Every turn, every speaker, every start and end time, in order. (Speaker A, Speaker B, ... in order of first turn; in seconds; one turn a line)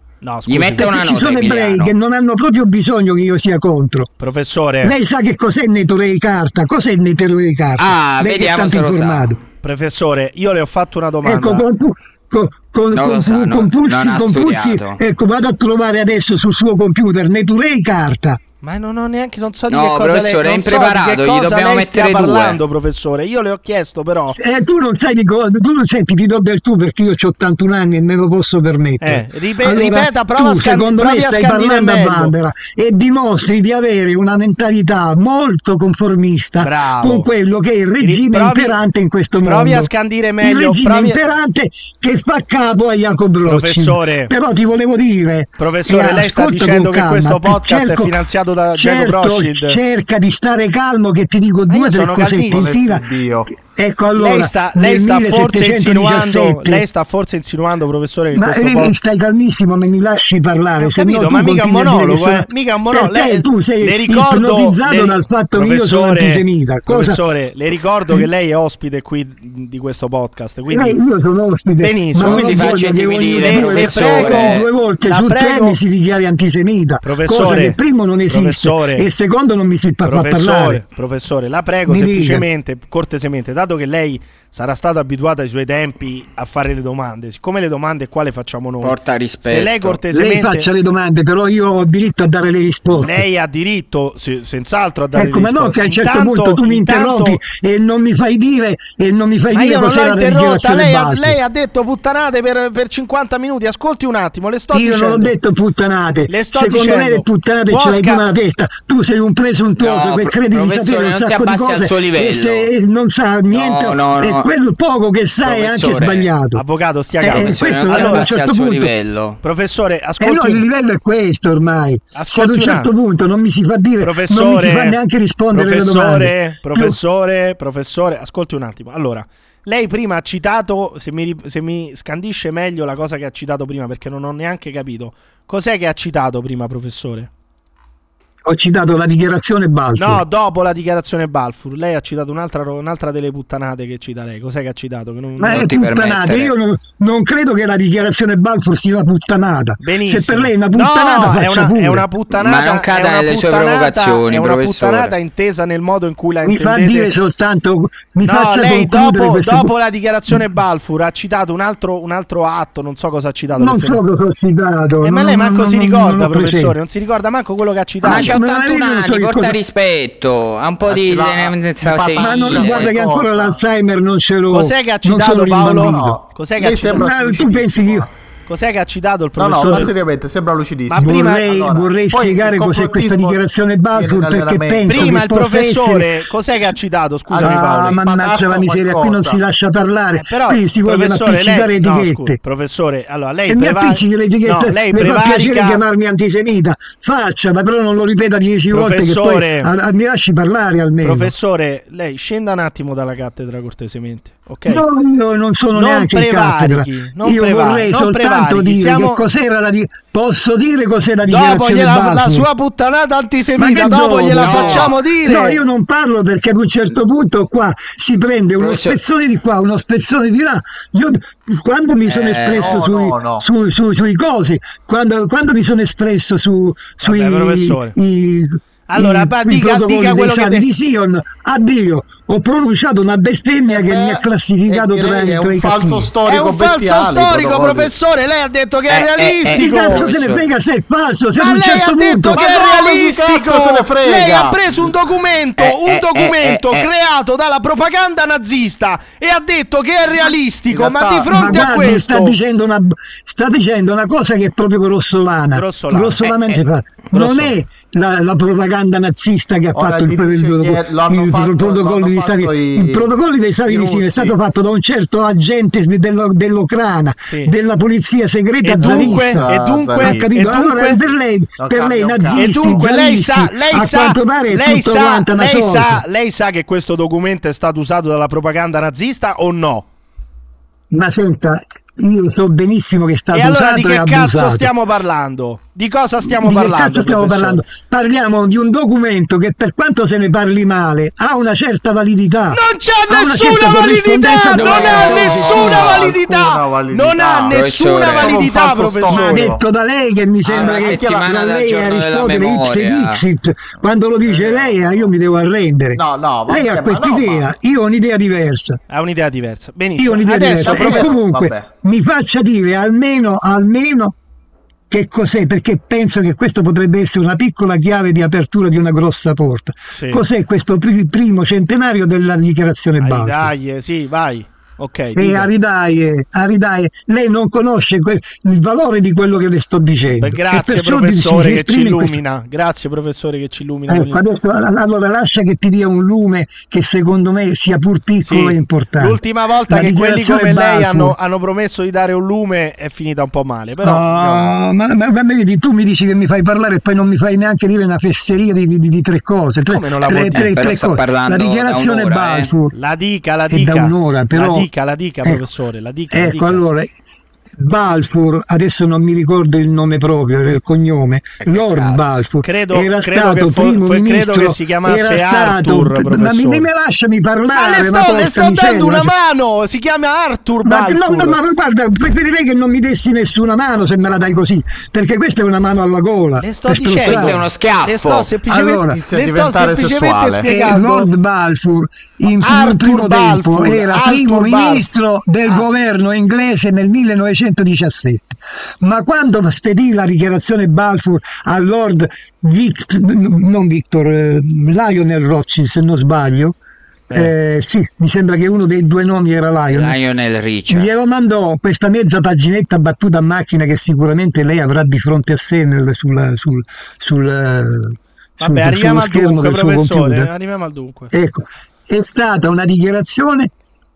Speaker A: 0.2-0.9
Speaker B: 0.5-1.9
Speaker C: 0.8-4.1
Speaker A: 4.2-4.9
Speaker C: 4.8-9.4
Speaker B: 7.8-9.4
Speaker A: 9.6-11.7
Speaker C: 11.2-18.4
Speaker B: 12.9-15.0
Speaker A: 18.6-24.4
Speaker B: 19.7-22.6
Speaker C: 24.3-39.9
Speaker A: 29.0-32.3
Speaker A: 36.6-37.3
Speaker A: 38.0-38.8
Speaker A: 39.4-41.2
Speaker C: 40.4-48.1
Speaker A: 43.5-44.3
Speaker A: 45.6-49.8
Speaker C: 48.8-56.8
Speaker A: 51.7-52.7
Speaker D: 52.5-53.5
Speaker A: 54.1-58.9
Speaker C: 58.3-67.2
Speaker A: 60.8-71.0
Speaker C: 70.7-80.8
Speaker A: 71.8-72.8
Speaker B: 72.2-74.7
Speaker A: 73.4-75.8
Speaker A: 77.0-77.8
Speaker A: 78.3-79.1
Speaker A: 80.0-88.9
Speaker C: 81.9-82.4
Speaker B: 88.8-90.0
Speaker A: 89.4-90.7
Speaker C: 90.1-93.2
Speaker A: 93.0-97.4
Speaker C: 95.1-101.3
Speaker A: 99.5-105.3
Speaker C: 104.7-116.6
Speaker A: 106.3-108.3
Speaker B: 109.8-112.7
Speaker B: 113.5-114.5
Speaker B: 115.4-116.3
Speaker A: 116.5-118.3
Speaker C: 117.2-118.9
Speaker B: 117.3-119.4
Speaker A: 119.4-120.6
Speaker C: 120.2-127.0
Speaker A: 122.1-122.9
Speaker A: 124.0-125.0
Speaker A: 125.5-137.3
Speaker C: 138.4-140.2
Speaker A: 139.9-145.7
Speaker C: 145.4-152.0
Speaker B: 145.4-146.5
Speaker A: 149.8-157.1
Speaker B: 152.4-155.1
Speaker C: 156.4-159.7
Speaker A: 158.2-164.0
Speaker C: 163.6-166.7
Speaker A: 165.0-168.4
Speaker C: 168.0-169.6
Speaker B: 168.0-172.9
Speaker D: 170.8-173.6
Speaker C: 172.2-176.2
Speaker A: 174.5-177.4
Speaker D: 175.7-178.1
Speaker C: 176.9-178.1
Speaker A: 178.5-179.9
Speaker D: 179.4-183.4
Speaker C: 179.6-179.9
Speaker A: 180.9-181.5
Speaker C: 180.9-186.1
Speaker D: 183.9-185.2
Speaker A: 184.8-188.0
Speaker D: 187.3-189.4
Speaker C: 187.3-192.4
Speaker A: 190.2-195.8
Speaker C: 193.5-201.3
Speaker A: 198.7-199.7
Speaker A: 201.0-204.8
Speaker C: 204.7-212.4
Speaker A: 205.7-209.2
Speaker A: 211.2-215.6
Speaker C: 213.6-236.1
Speaker B: 214.4-214.8
Speaker B: 218.6-219.0
Speaker B: 222.1-222.8
Speaker D: 222.5-223.4
Speaker A: 227.0-227.9
Speaker A: 228.9-230.7
Speaker D: 233.7-237.9
Speaker A: 236.2-240.1
Speaker B: 238.9-240.4
Speaker C: 239.5-242.4
Speaker A: 241.4-252.4
Speaker D: 242.3-244.8
Speaker B: 245.6-246.9
Speaker D: 250.7-252.0
Speaker C: 251.3-276.0
Speaker A: 255.5-256.3
Speaker A: 257.1-257.5
Speaker D: 259.7-263.1
Speaker D: 263.7-264.3
Speaker A: 267.3-267.5
Speaker A: 268.6-271.0
Speaker D: 268.8-270.8
Speaker D: 271.6-272.8
Speaker A: 272.3-279.9
Speaker C: 280.9-284.7
Speaker A: 283.3-287.6
Speaker C: 286.2-295.8
Speaker A: 292.5-299.5
Speaker B: 294.6-296.0
Speaker D: 294.7-299.6
Speaker B: 297.5-298.5
Speaker C: 299.1-308.8
Speaker B: 300.4-303.2
Speaker D: 300.5-301.2
Speaker D: 304.2-305.1
Speaker D: 305.9-307.5
Speaker A: 308.9-311.1
Speaker C: 310.0-314.1
Speaker D: 310.6-311.7
Speaker C: 314.9-323.5
Speaker A: 319.9-320.2
Speaker A: 323.0-325.5
Speaker C: 325.1-332.2
Speaker A: 330.2-334.2
Speaker C: 333.9-341.1
Speaker A: 338.2-344.5
Speaker C: 343.8-352.7
Speaker A: 349.7-350.5
Speaker B: 350.2-352.5
Speaker A: 352.7-356.6
Speaker C: 353.5-354.7
Speaker C: 356.1-356.9
Speaker C: 357.5-369.1
Speaker B: 361.4-362.2
Speaker A: 362.4-366.7
Speaker A: 367.5-371.4
Speaker C: 370.6-377.4
Speaker A: 376.4-381.1
Speaker B: 377.0-378.3
Speaker C: 378.5-379.0
Speaker D: 378.8-380.5
Speaker C: 380.4-396.5
Speaker A: 382.3-384.8
Speaker C: 397.1-399.9
Speaker B: 399.7-400.9
Speaker C: 400.7-410.3
Speaker A: 408.4-411.1
Speaker C: 411.1-413.5